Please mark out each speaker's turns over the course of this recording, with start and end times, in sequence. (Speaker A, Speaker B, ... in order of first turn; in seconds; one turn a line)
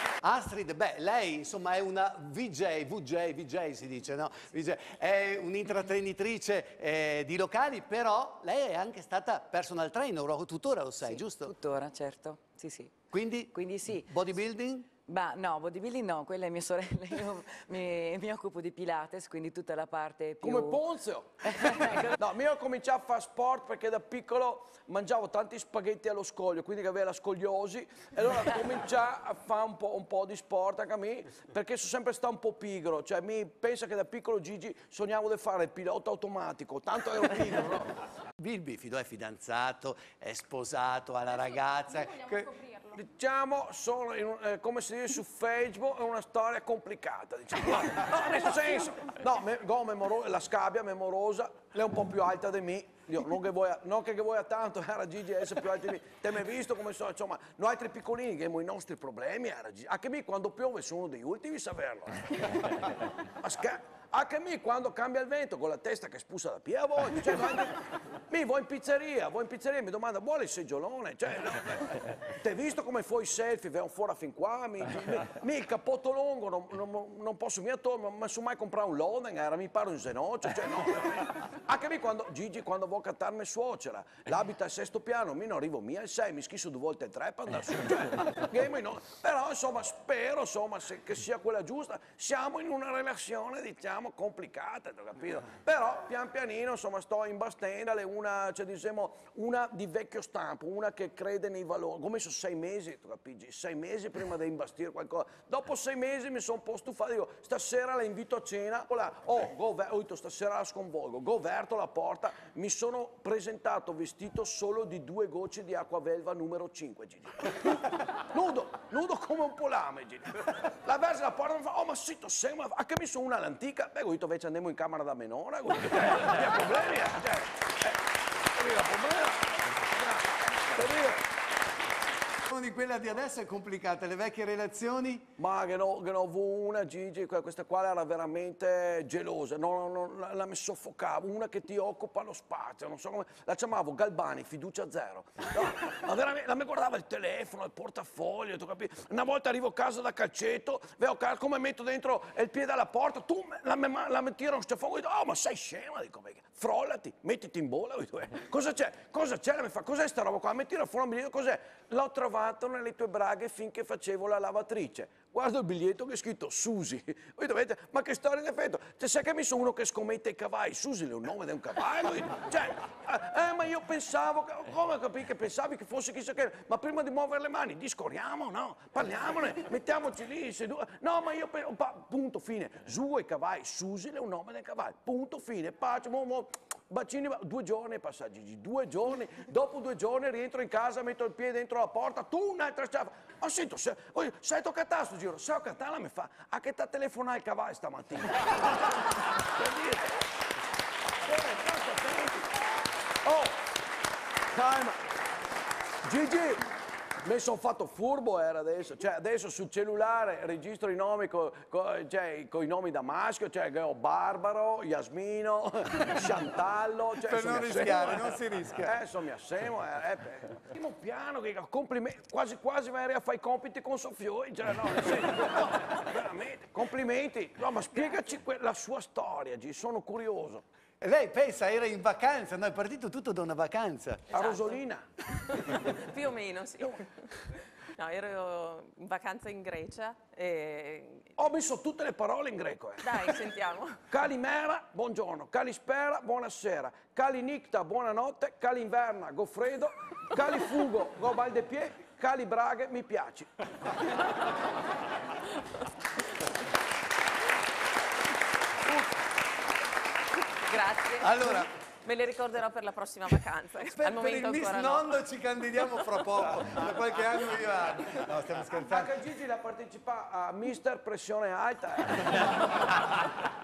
Speaker A: 0.2-11.5
Speaker B: 11.0-14.2
Speaker A: 13.1-14.9
Speaker B: 15.0-20.8
Speaker C: 20.4-38.0
Speaker B: 21.4-22.1
Speaker A: 38.4-42.8
Speaker C: 42.8-131.3
Speaker A: 132.5-135.2
Speaker C: 135.4-200.2
Speaker C: 201.2-202.5
Speaker C: 203.2-203.6
Speaker C: 204.5-205.0
Speaker C: 206.0-206.6
Speaker C: 207.2-230.6
Speaker A: 217.2-219.0
Speaker A: 231.0-234.2
Speaker D: 234.3-234.8
Speaker C: 234.3-235.1
Speaker D: 235.4-241.3
Speaker C: 241.4-243.3
Speaker D: 243.0-244.0
Speaker C: 244.1-253.6
Speaker D: 260.6-265.2
Speaker A: 261.2-261.7
Speaker A: 263.9-269.1
Speaker C: 268.7-272.9